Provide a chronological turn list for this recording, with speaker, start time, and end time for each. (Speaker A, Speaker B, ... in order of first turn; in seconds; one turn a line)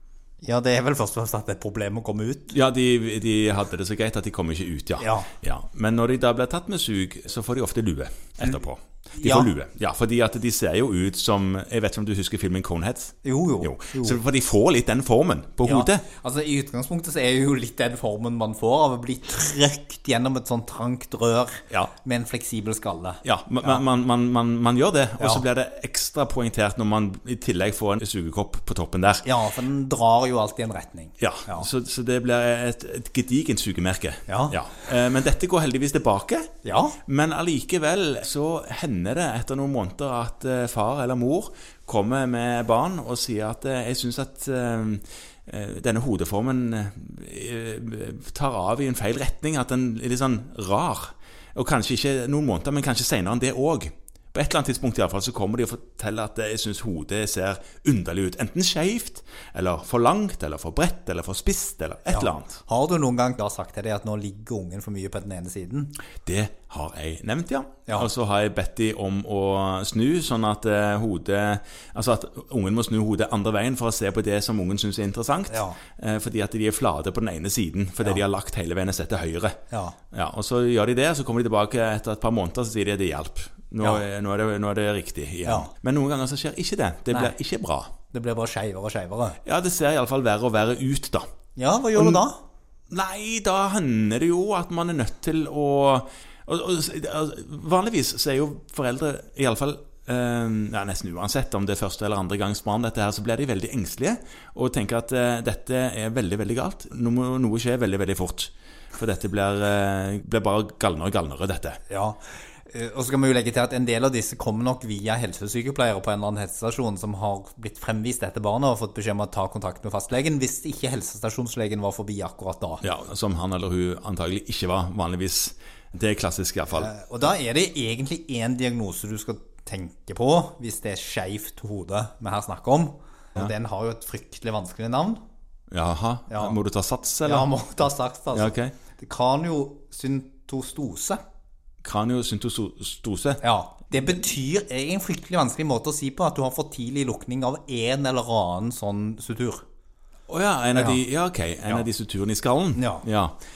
Speaker A: 0.4-2.5
Speaker B: 2.5-16.1
Speaker A: 5.0-5.3
Speaker A: 9.2-9.5
Speaker A: 13.2-14.2
Speaker A: 15.6-23.8
Speaker B: 23.2-29.2
Speaker A: 25.2-25.4
Speaker A: 29.2-31.7
Speaker B: 31.2-36.5
Speaker A: 34.3-34.6
Speaker A: 36.6-37.0
Speaker B: 37.0-62.6
Speaker A: 62.1-65.9
Speaker B: 66.2-79.6
Speaker A: 75.5-75.8
Speaker A: 79.7-80.0
Speaker B: 80.1-87.9
Speaker A: 85.5-85.7
Speaker A: 88.1-89.4
Speaker B: 89.4-91.2
Speaker A: 91.5-92.4
Speaker B: 91.9-92.2
Speaker B: 92.9-111.8
Speaker A: 111.9-122.8
Speaker B: 122.8-126.9
Speaker A: 126.7-135.2
Speaker B: 135.7-137.5
Speaker A: 136.3-136.6
Speaker A: 137.2-141.2
Speaker B: 138.3-138.7
Speaker B: 141.8-143.4
Speaker A: 143.4-149.6
Speaker B: 150.3-153.3
Speaker A: 150.7-151.0
Speaker A: 152.7-153.1